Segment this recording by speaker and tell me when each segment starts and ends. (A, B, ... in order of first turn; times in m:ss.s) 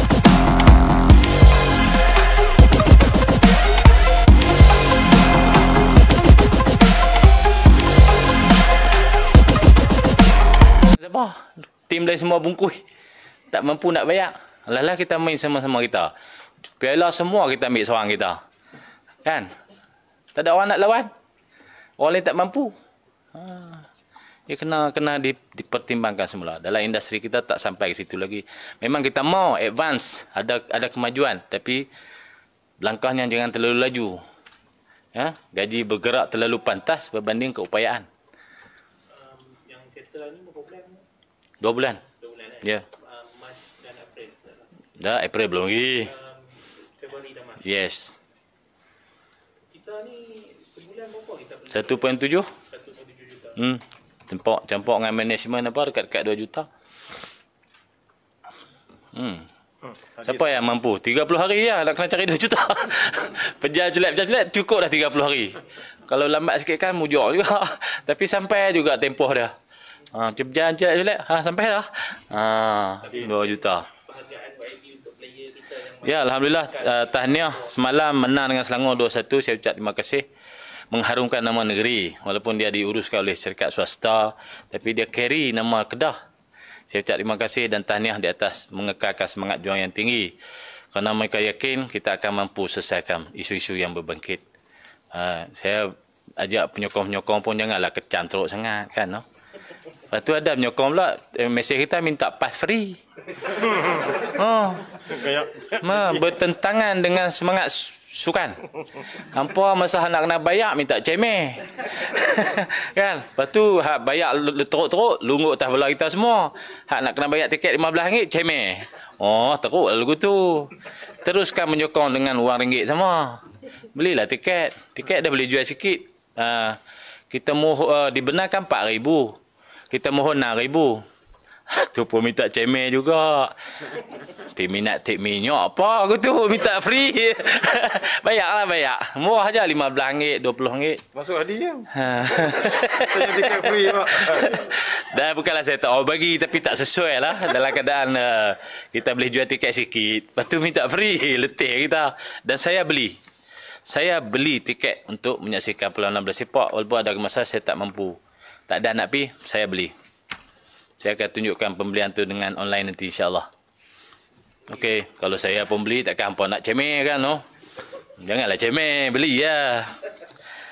0:10.8-0:12.8 A
0:13.5-0:16.1 A
0:16.8-0:18.4 A
0:19.2-0:19.5 A
0:20.3-0:21.1 A
0:22.0-0:22.8 A
0:23.3-0:23.9 A
0:24.5-0:31.9 A
0:32.8-0:34.2 A
0:35.1-0:38.1 A
0:39.1-0:41.0 B
0:41.6-0:42.0 A
0:42.1-0:44.6 B
0:45.0-0:46.1 A
0:46.0-0:47.6 B
0:47.6-0:48.2 A
0:49.7-0:52.1 B
0:51.7-0:52.5 A
0:52.7-0:53.6 B
0:53.6-0:56.7 A
0:59.1-0:59.5 A
1:00.2-1:09.5 A
1:10.1-1:13.9 A
1:13.1-1:16.2 B
1:16.0-1:20.2 A
1:16.8-1:17.3 B
1:20.9-1:26.2 A
1:26.9-1:30.3 A
1:30.9-1:34.4 A
1:35.1-1:39.2 A
1:40.1-2:09.4 A
2:09.9-2:11.0 A
2:11.7-2:21.0 A
2:21.1-2:21.9 C
2:21.9-2:33.2 A
2:23.1-2:24.3 C
2:33.8-2:39.9 A
2:41.0-2:43.5 A
2:44.7-2:47.4 A
2:48.2-2:50.0 A